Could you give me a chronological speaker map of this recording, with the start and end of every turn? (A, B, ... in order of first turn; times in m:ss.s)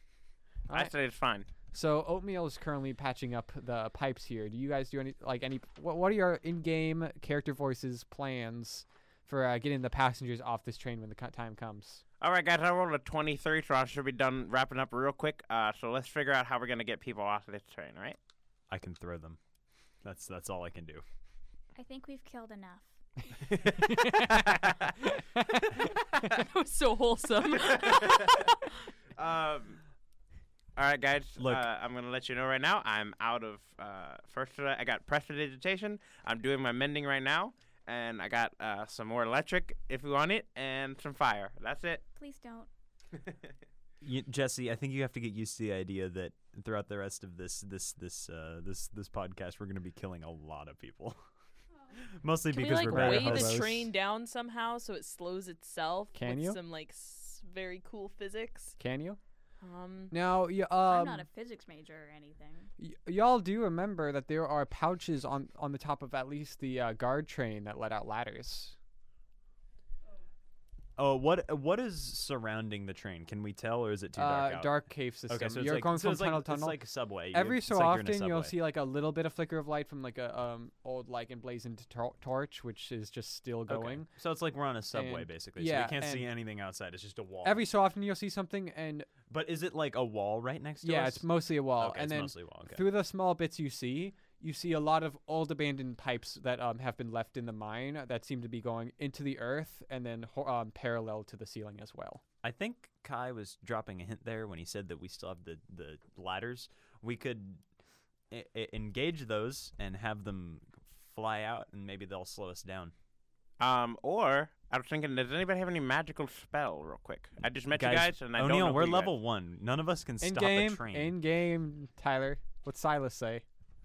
0:00.7-0:01.5 A
0:01.7-0:12.0 B
0:12.2-0:18.2 A
0:18.7-0:19.4 C
0:20.0-0:21.0 C
0:21.7-0:23.3 D
0:23.8-0:24.7 B
0:25.3-0:25.8 B
0:26.3-0:28.7 E
0:27.6-0:28.5 A
0:29.2-0:29.8 A
0:30.8-0:42.0 A
0:31.4-0:31.7 C
0:42.2-0:42.7 D
0:44.0-0:51.2 C
0:52.0-0:53.8 C
0:52.5-0:58.8 E
0:52.9-0:53.9 B
0:56.1-0:56.6 B
0:58.8-0:59.2 B
0:59.6-1:00.1 E
1:00.1-1:01.3 B
1:00.9-1:02.7 D
1:02.8-1:08.8 B
1:11.0-1:18.6 C
1:14.2-1:16.8 B
1:17.3-1:24.1 B
1:23.7-1:27.7 C
1:24.9-1:26.3 B
1:27.4-1:29.1 B
1:29.3-1:32.9 C
1:30.8-1:42.2 B
1:42.4-1:47.6 C
1:48.3-1:52.9 C
1:53.6-1:59.1 A
1:57.7-2:01.2 C
2:00.2-2:03.4 B